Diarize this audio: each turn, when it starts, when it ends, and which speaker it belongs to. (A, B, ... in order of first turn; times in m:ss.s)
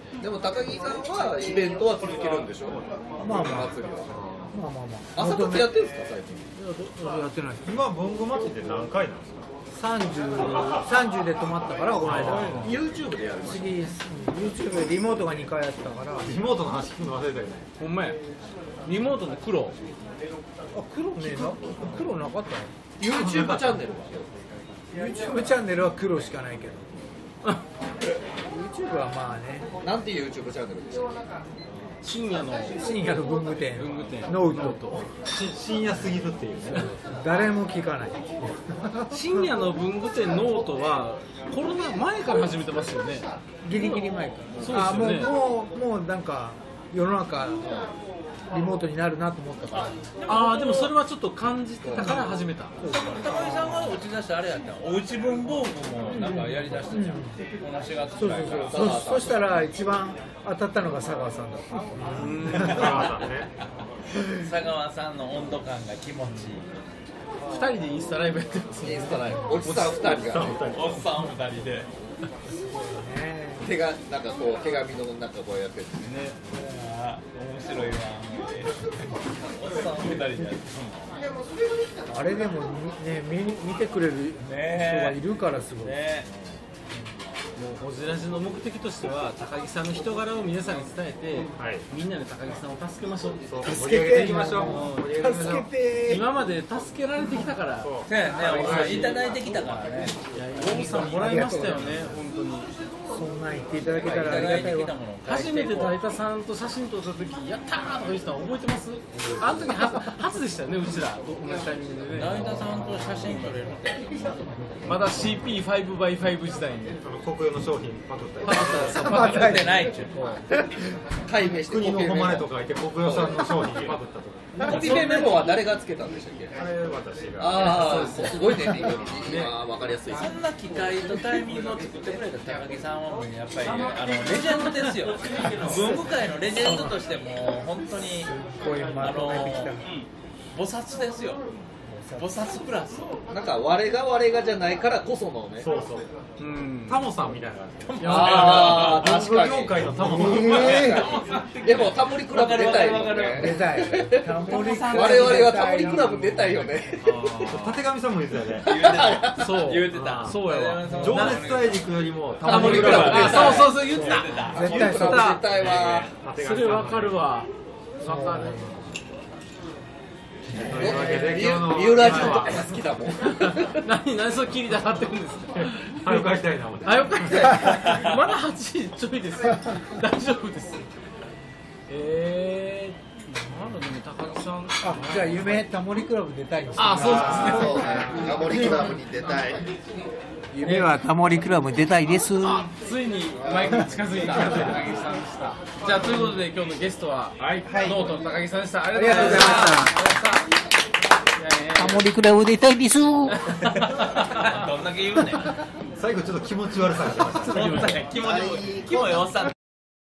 0:00.2-0:04.3 A
0:03.2-0:03.7 B
0:04.1-0:04.5 C
0:04.5-0:05.8 B
0:05.2-0:06.5 A
0:06.6-0:07.8 B
0:07.6-0:09.5 C
0:09.7-0:12.8 B
0:12.0-0:12.7 C
0:12.0-0:12.7 D
0:12.6-0:13.7 A
0:13.4-0:16.4 B
0:16.2-0:17.7 C
0:17.8-0:18.2 D
0:18.8-0:19.8 D
0:20.7-0:22.7 B
0:23.0-0:24.3 A
0:23.2-0:23.5 C
0:24.9-0:26.9 B
0:28.4-0:29.7 B
0:29.8-0:31.1 A
0:32.0-0:32.8 D
0:32.8-0:35.0 B
0:33.8-0:35.0 D
0:35.3-0:37.0 C
0:37.1-0:39.5 B
0:39.1-0:45.3 D
0:43.6-0:47.8 B
0:47.6-0:47.9 A
0:48.5-0:50.0 B
0:50.2-0:50.9 E
0:50.3-0:52.8 D
0:52.0-0:54.0 B
0:52.8-0:58.9 E
0:56.1-0:57.4 B
0:58.2-1:02.9 B
0:58.6-0:59.6 A
1:02.0-1:03.5 C
1:02.1-1:02.8 D
1:04.4-1:06.7 E
1:07.5-1:09.8 D
1:08.8-1:10.6 A
1:09.8-1:11.1 C
1:10.7-1:11.9 E
1:12.6-1:13.7 B
1:13.6-1:16.1 A
1:16.1-1:21.1 E
1:22.1-1:26.0 B
1:24.4-1:26.3 E
1:27.6-1:33.4 D
1:31.6-1:31.8 C
1:33.5-1:35.7 C
1:33.6-1:36.3 B
1:34.5-1:39.4 D
1:37.8-1:38.1 C
1:38.1-1:41.8 E
1:38.4-1:39.3 B
1:40.3-1:42.7 D
1:40.8-1:42.1 B
1:43.1-1:44.9 B
1:44.0-1:46.0 E
1:45.3-1:52.8 D
1:49.5-1:50.0 B
1:52.1-1:54.5 E
1:52.7-1:53.7 B
1:54.8-1:57.0 D
1:57.0-1:58.8 C
1:58.4-2:00.2 E
1:58.5-1:59.5 D
1:58.8-2:00.8 B
2:01.3-2:02.5 A
2:01.6-2:04.7 C
2:03.0-2:03.5 A
2:04.6-2:06.5 A
2:04.7-2:05.4 D
2:04.8-2:05.3 E
2:06.6-2:08.0 C
2:07.4-2:10.3 A
2:07.6-2:08.5 D
2:09.2-2:09.6 D
2:10.1-2:18.3 E
2:14.3-2:15.8 D
2:16.6-2:16.9 B
2:18.1-2:19.8 B
2:19.0-2:19.7 E
2:20.5-2:21.4 E
2:21.9-2:22.3 B
2:22.2-2:23.2 E
2:23.3-2:25.7 A
2:25.6-2:26.1 C
2:26.4-2:27.0 D
2:26.9-2:30.8 C
2:27.9-2:29.1 E
2:28.0-2:28.9 D
2:28.0-2:37.4 A
2:29.9-2:31.1 B
2:30.5-2:33.7 E
2:33.3-2:36.8 B
2:34.4-2:35.5 E
2:37.1-2:37.7 E
2:37.4-2:38.7 C
2:38.6-2:39.6 A
2:38.6-2:41.9 E
2:39.4-2:40.8 D
2:39.9-2:43.6 C
2:40.9-2:41.5 B
2:42.4-2:43.8 A
2:42.4-2:45.5 D
2:42.5-2:44.8 E
2:42.7-2:45.4 B
2:44.6-2:46.1 A
2:45.6-2:46.1 E
2:46.2-2:47.3 C
2:46.4-2:47.5 D
2:48.0-2:48.8 D
2:48.0-2:49.0 B
2:50.6-2:52.6 C
2:50.7-2:53.8 A
2:50.8-2:51.5 D
2:52.1-2:52.6 D
2:53.8-2:55.7 D
2:55.6-2:57.5 C
2:56.8-3:00.8 D
3:01.9-3:05.5 D
3:04.8-3:08.9 B
3:06.8-3:08.9 D
3:07.0-3:09.7 A
3:10.5-3:12.7 B
3:10.6-3:10.9 D
3:12.5-3:20.5 D
3:13.6-3:14.8 B
3:14.4-3:14.7 C
3:16.0-3:16.4 B
3:17.4-3:18.0 C
3:17.6-3:18.0 B
3:18.9-3:20.0 B
3:19.0-3:19.9 E
3:21.4-3:22.1 D
3:21.8-3:23.7 B
3:23.3-3:24.4 D
3:23.9-3:25.5 E
3:26.0-3:27.8 C
3:27.4-3:28.1 D
3:27.4-3:29.5 E